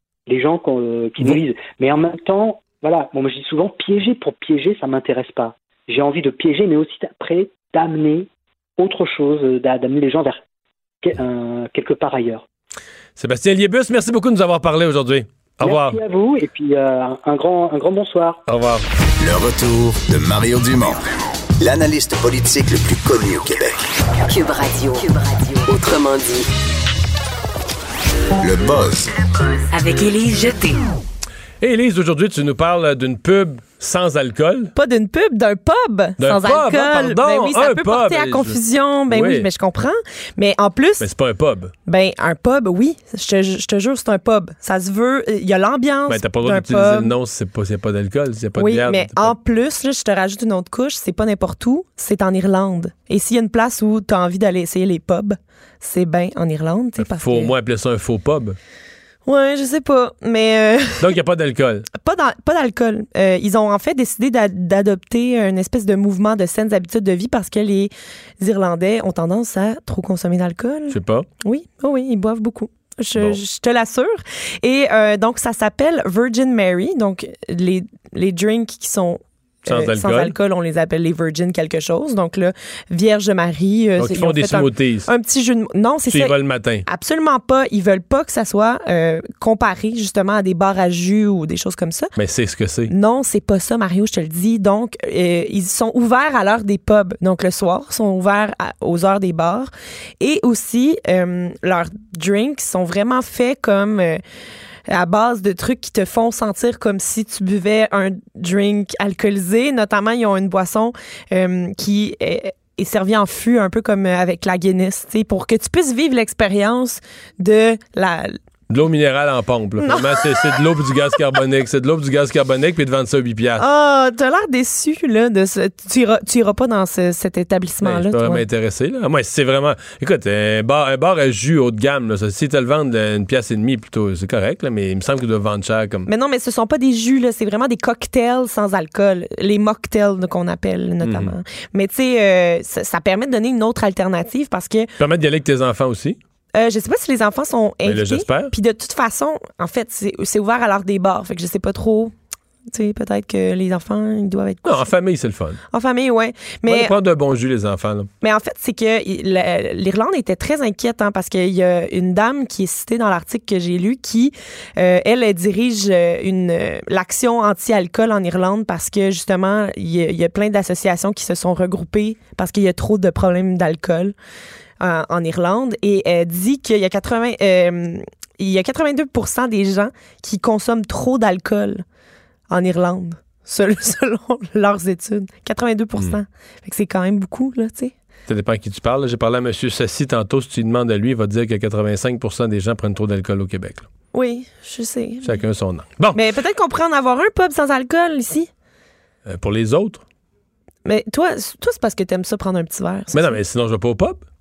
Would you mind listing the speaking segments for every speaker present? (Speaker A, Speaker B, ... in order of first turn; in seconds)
Speaker A: 0.3-10.4, 11.0-12.4, 15.6-18.4
Speaker B: 13.2-16.0, 18.5-18.8, 31.6-34.7, 36.2-39.5, 41.0-41.7, 46.1-49.3, 57.0-58.6, 61.0-61.9, 70.9-71.2, 79.7-80.3, 84.0-85.1, 86.1-86.8, 92.2-92.9, 118.7-123.6, 127.8-136.1, 141.0-141.3, 145.0-146.2, 147.8-148.5, 154.6-155.6, 156.7-158.1, 188.3-193.9, 195.2-196.2, 199.3-200.0, 203.1-204.2
Speaker C: 19.2-21.0, 21.6-23.9, 28.4-29.1
Speaker D: 24.2-26.5, 29.7-30.9
Speaker E: 34.8-41.1, 41.9-47.1, 48.5-57.5, 59.2-61.1, 62.0-86.3, 86.9-92.1, 92.9-104.2, 104.9-118.4, 119.8-121.2, 123.6-128.4, 136.1-144.9, 146.6-152.1, 152.7-154.9, 155.7-156.9, 158.2-174.1, 174.8-181.8, 182.5-187.9, 194.1-195.4, 196.1-198.5, 200.8-203.4